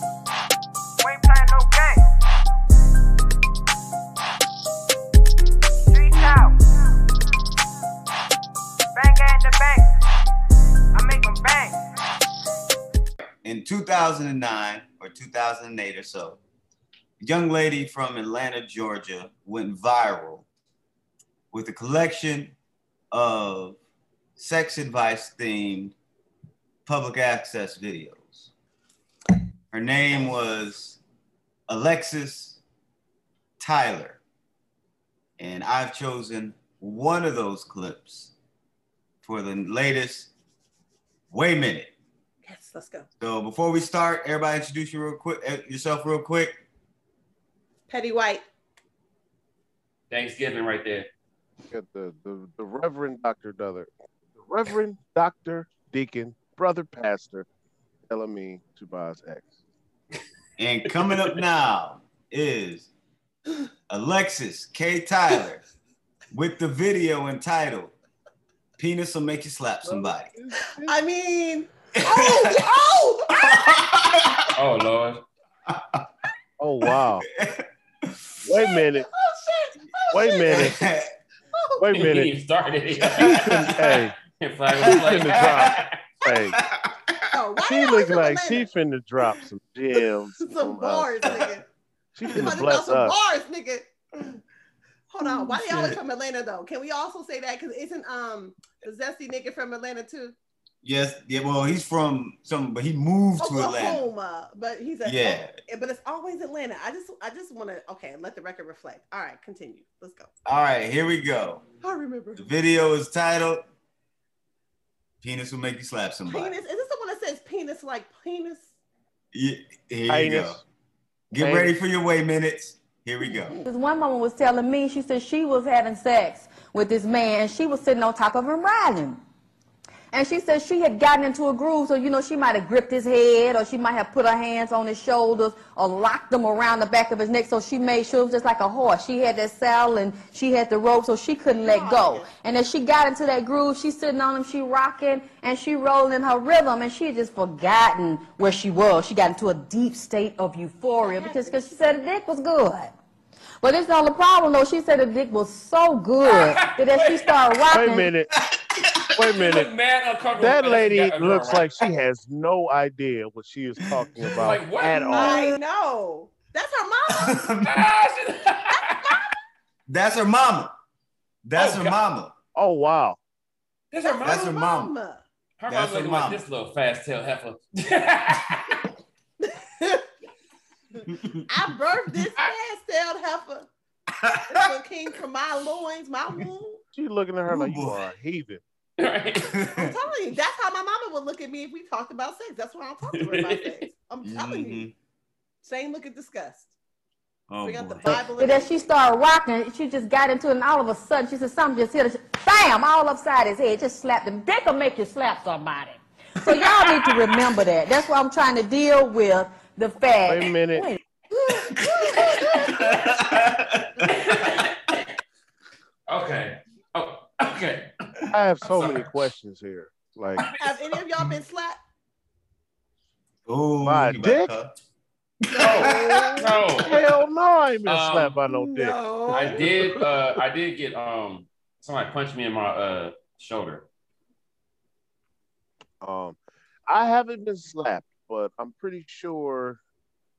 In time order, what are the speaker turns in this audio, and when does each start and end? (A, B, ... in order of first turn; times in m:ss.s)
0:01.0-0:02.0 A
0:05.9-0:06.6 A
0:08.9-0:09.9 A
0:10.9-0:11.8 A
0:13.4-0:16.4 B
0:17.2-0:20.4 B
0:21.5-0:22.5 B
0:23.1-0:23.8 B
0:24.4-0:25.9 B
0:26.8-0:28.5 B
0:29.7-0:31.0 B
0:31.7-0:32.6 B
0:33.6-0:34.2 B
0:35.4-0:38.3 B
0:39.2-0:40.3 B
0:41.3-0:41.9 B
0:42.4-0:43.1 C
0:43.2-0:46.6 B
0:47.9-0:48.4 C
0:50.1-0:51.1 D
0:51.7-0:57.5 E
0:58.1-0:59.5 E
1:00.6-1:02.9 B
1:03.9-1:05.6 B
1:06.3-1:07.9 B
1:08.8-1:10.3 B
1:09.8-1:11.0 E
1:10.8-1:13.7 C
1:12.0-1:14.5 B
1:14.6-1:15.2 D
1:15.7-1:16.0 B
1:16.6-1:17.3 E
1:17.4-1:18.4 B
1:18.4-1:19.1 E
1:18.6-1:20.7 C
1:20.1-1:20.8 E
1:20.5-1:21.1 B
1:21.5-1:21.8 C
1:21.8-1:22.3 E
1:21.9-1:23.4 D
1:23.1-1:23.9 B
1:23.3-1:24.2 E
1:24.3-1:25.9 D
1:24.8-1:25.8 B
1:24.8-1:26.6 E
1:26.5-1:27.3 B
1:27.3-1:28.7 C
1:27.6-1:31.5 E
1:29.9-1:31.6 C
1:31.2-1:31.5 B
1:32.1-1:33.2 E
1:32.3-1:34.4 C
1:35.1-1:40.3 C
1:35.3-1:36.0 B
1:40.8-1:44.0 B
1:43.4-1:50.3 C
1:45.0-1:45.6 B
1:50.4-1:51.7 B
1:51.8-1:52.5 C
1:52.4-1:53.6 B
1:55.2-1:56.6 B
1:56.2-1:58.7 C
1:59.3-2:00.6 B
2:00.1-2:00.6 E
2:01.3-2:03.6 B
2:01.4-2:01.7 E
2:03.6-2:09.2 F
2:10.1-2:32.9 F
2:21.5-2:22.3 C
2:31.0-2:31.9 C
2:33.6-2:38.1 F
2:36.2-2:37.2 D
2:37.7-2:38.3 E
2:38.5-2:39.2 B
2:39.2-2:39.7 E
2:39.4-2:41.6 D
2:40.3-2:45.6 E
2:44.4-2:45.4 D
2:45.1-2:47.4 C
2:47.1-2:47.7 B
2:47.6-2:49.1 D
2:48.7-2:49.3 C
2:49.9-2:50.7 B
2:51.4-2:52.3 B
2:51.5-2:52.0 D
2:52.5-2:53.2 E
2:53.9-2:54.3 D
2:54.0-2:55.2 C
2:54.2-2:54.9 B
2:55.6-2:58.9 D
2:55.7-2:56.4 B
2:59.4-3:00.0 C
3:01.5-3:03.7 C
3:04.2-3:04.7 B
3:04.5-3:06.8 C
3:06.9-3:08.6 E
3:07.5-3:08.0 B
3:09.0-3:09.5 D
3:09.4-3:09.9 B
3:09.7-3:14.8 C
3:13.1-3:13.8 D
3:14.2-3:14.9 B
3:15.6-3:16.7 C
3:17.5-3:18.1 B
3:17.6-3:18.8 C
3:18.2-3:31.0 F
3:30.2-3:30.9 E
3:31.5-3:34.5 B
3:32.1-3:32.6 C
3:32.3-3:32.9 D
3:34.0-3:35.0 D
3:36.1-3:37.9 D
3:38.3-3:40.4 E
3:38.7-3:39.1 D
3:40.6-3:41.8 C
3:43.5-3:44.7 B
3:43.8-3:44.5 E
3:45.5-3:46.4 B
3:45.5-3:46.6 C
3:45.6-3:47.0 D
3:46.8-3:50.0 E
3:47.8-3:48.4 D
3:48.5-3:49.8 C
3:49.3-3:53.8 D
3:56.0-3:59.8 E